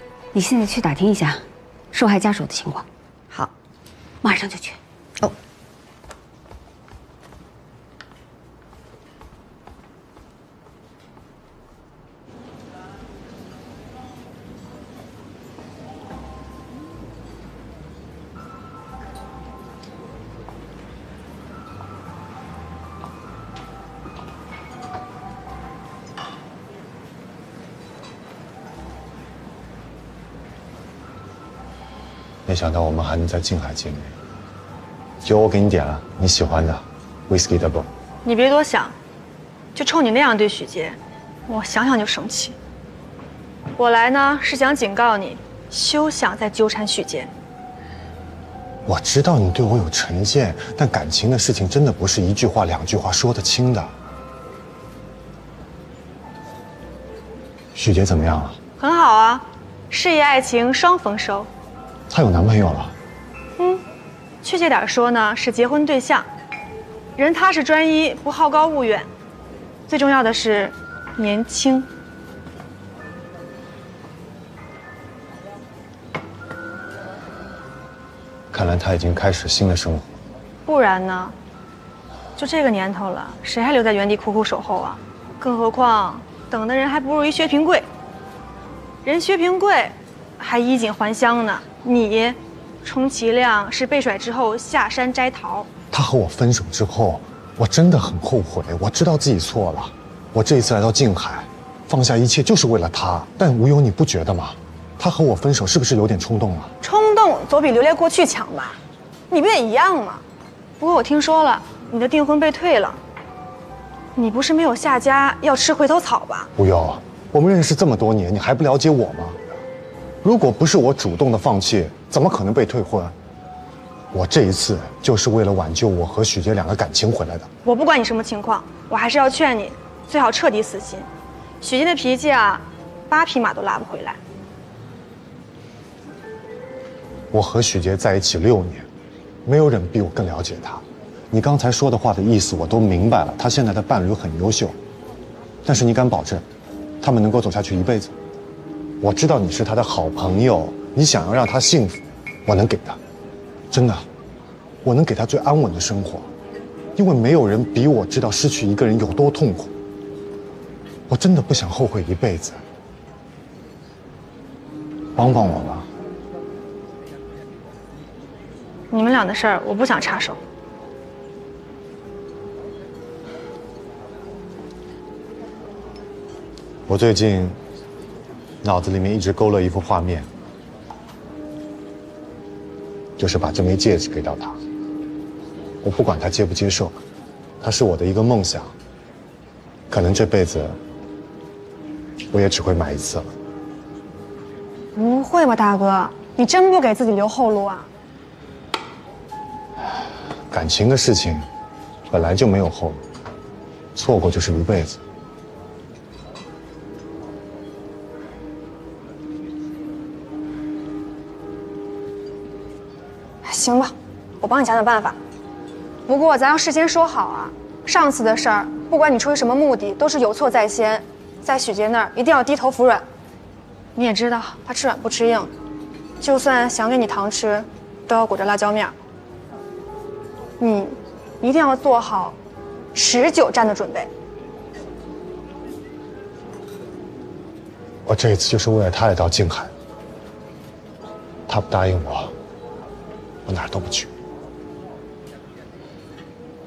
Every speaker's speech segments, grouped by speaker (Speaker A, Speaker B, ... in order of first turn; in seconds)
Speaker A: 0.3-2.9, 4.2-4.8
Speaker B: 32.5-34.1, 35.2-37.9, 48.9-53.9, 57.7-58.6, 62.1-62.9, 78.5-80.0, 95.9-106.7, 116.5-119.4, 120.2-123.1, 124.1-127.5, 137.3-138.8, 139.4-144.8, 145.6-146.4, 147.0-148.1, 149.0-153.0, 153.7-154.0, 154.8-156.3, 157.0-159.7, 161.1-162.6, 165.2-165.9, 176.9-177.6, 178.6-180.3, 183.2-184.6, 185.8-186.9, 187.6-188.7, 189.9-190.8, 192.3-193.3, 200.5-201.4, 202.1-203.0, 203.9-205.0, 238.1-239.7, 241.5-242.3, 243.4-244.1
Speaker C: 38.2-38.9, 39.7-42.5, 43.8-47.3, 58.8-61.5, 64.4-66.3, 67.2-69.1, 69.9-71.9, 80.7-81.3, 82.3-87.9, 89.0-95.7, 106.8-108.8, 109.3-110.2, 110.8-113.0, 114.2-116.5, 127.6-131.1, 131.6-134.2, 168.9-170.4, 194.9-197.9, 213.4-215.2, 216.1-223.0, 223.9-225.5, 226.2-228.9, 230.6-232.4, 232.9-234.1